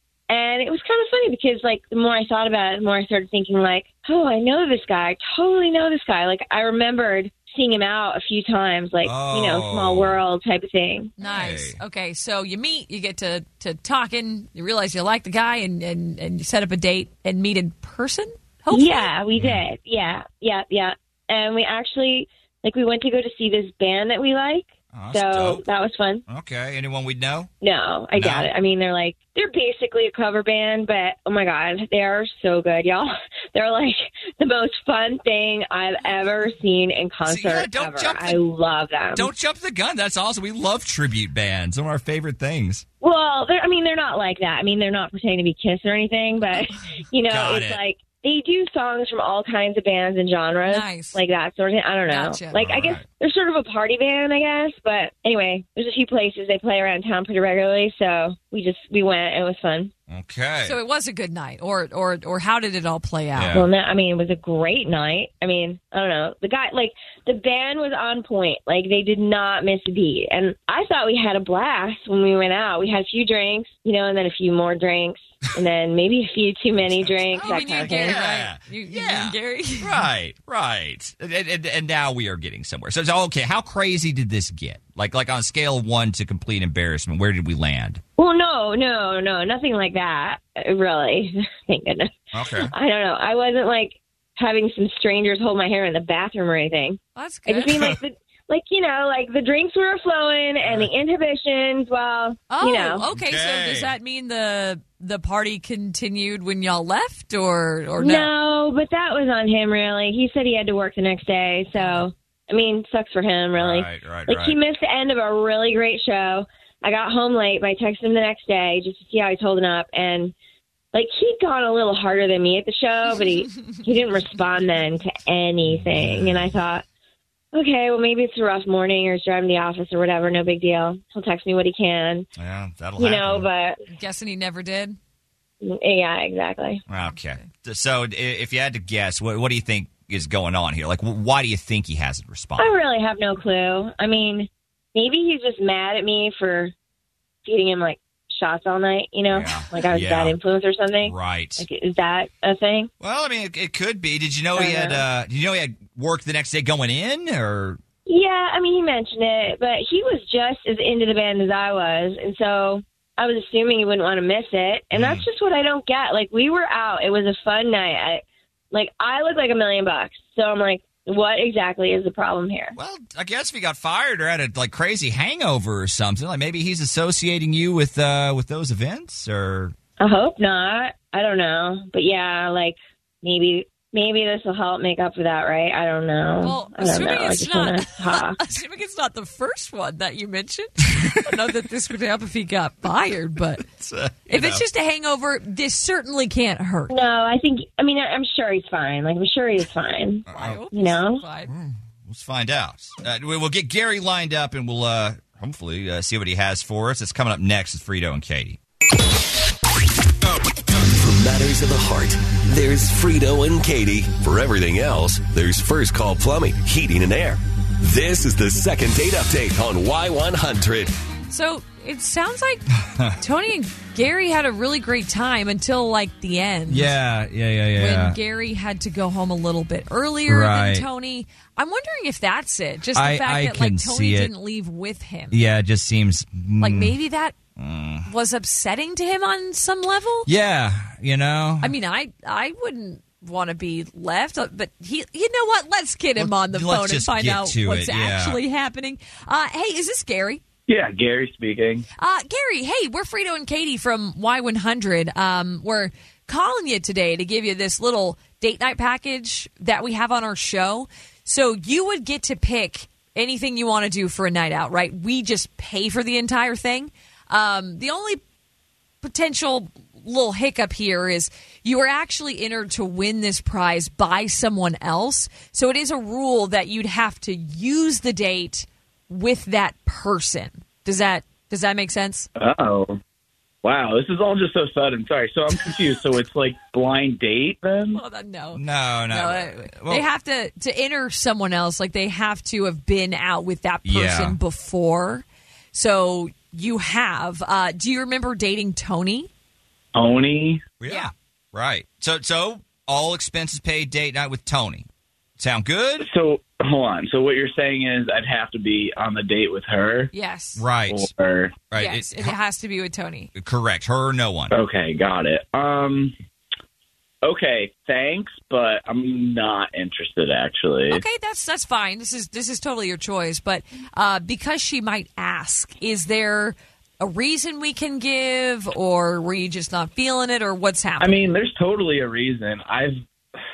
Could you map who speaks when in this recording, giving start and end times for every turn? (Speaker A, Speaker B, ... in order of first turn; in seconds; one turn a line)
Speaker A: 0.3-11.1
Speaker B: 9.0-10.2
Speaker C: 11.2-19.1
Speaker B: 11.2-11.8
Speaker A: 18.7-26.2
Speaker B: 19.4-19.6
Speaker B: 24.9-25.6
Speaker B: 26.3-27.5
Speaker A: 27.6-39.3
Speaker B: 28.1-28.5
Speaker B: 37.2-38.4
Speaker B: 39.1-42.9
Speaker A: 43.0-59.9
Speaker B: 47.3-47.8
Speaker C: 50.7-51.2
Speaker C: 52.1-52.7
Speaker B: 52.5-53.0
Speaker B: 60.1-60.8
Speaker C: 60.6-63.6
Speaker B: 63.3-63.7
Speaker A: 63.5-78.2
Speaker B: 76.9-88.0
Speaker C: 77.4-80.1
Speaker A: 88.2-103.0
Speaker B: 92.3-92.7
Speaker C: 97.2-97.9
Speaker B: 97.7-98.0
Speaker B: 100.6-100.9
Speaker C: 102.5-108.3
Speaker B: 103.1-103.9
Speaker A: 108.0-120.3
Speaker B: 113.5-114.6
Speaker A: 120.9-126.8
Speaker B: 125.8-126.5
Speaker A: 127.5-132.3
Speaker B: 132.4-133.5
Speaker A: 133.0-133.8
Speaker C: 133.9-135.0
Speaker A: 135.6-136.8
Speaker B: 136.9-142.7
Speaker A: 142.6-146.7
Speaker A: 147.4-152.9
Speaker B: 149.3-150.4
Speaker B: 151.0-151.7
Speaker B: 153.0-157.8
Speaker A: 154.6-155.0
Speaker A: 158.1-172.8
Speaker B: 164.9-165.2
Speaker B: 172.8-179.8
Speaker A: 180.0-188.4
Speaker C: 186.4-193.6
Speaker B: 193.6-194.7
Speaker C: 194.3-196.9
Speaker A: 196.9-201.2
Speaker B: 200.3-200.6
Speaker C: 200.3-201.5
Speaker B: 201.5-208.6
Speaker D: 210.3-220.9
Speaker C: 221.3-222.7
Speaker B: 222.8-223.2
Speaker C: 223.2-226.9
Speaker B: 226.7-228.2
Speaker C: 227.8-235.4
Speaker B: 230.3-230.9
Speaker B: 232.9-234.3
Speaker B: 235.3-237.0
Speaker C: 236.6-237.3
Speaker B: 237.6-238.1
Speaker C: 238.1-240.3
Speaker B: 240.2-241.7
Speaker C: 241.6-250.4
Speaker B: 246.2-248.4
Speaker E: 250.7-251.8
Speaker C: 252.0-268.2
Speaker C: 269.0-282.3
Speaker E: 282.4-283.0
Speaker E: 283.6-288.0
Speaker C: 287.9-299.3
Speaker B: 288.5-290.1
Speaker B: 293.9-294.4
Speaker E: 299.9-300.6
Speaker B: 300.8-304.9
Speaker B: 305.4-306.1
Speaker E: 306.0-310.1
Speaker C: 310.1-310.6
Speaker B: 310.6-311.1
Speaker E: 310.9-311.6
Speaker B: 311.7-312.4
Speaker C: 311.8-313.3
Speaker B: 313.4-314.6
Speaker E: 314.5-316.1
Speaker E: 317.2-321.0
Speaker C: 320.9-331.3
Speaker E: 331.0-333.0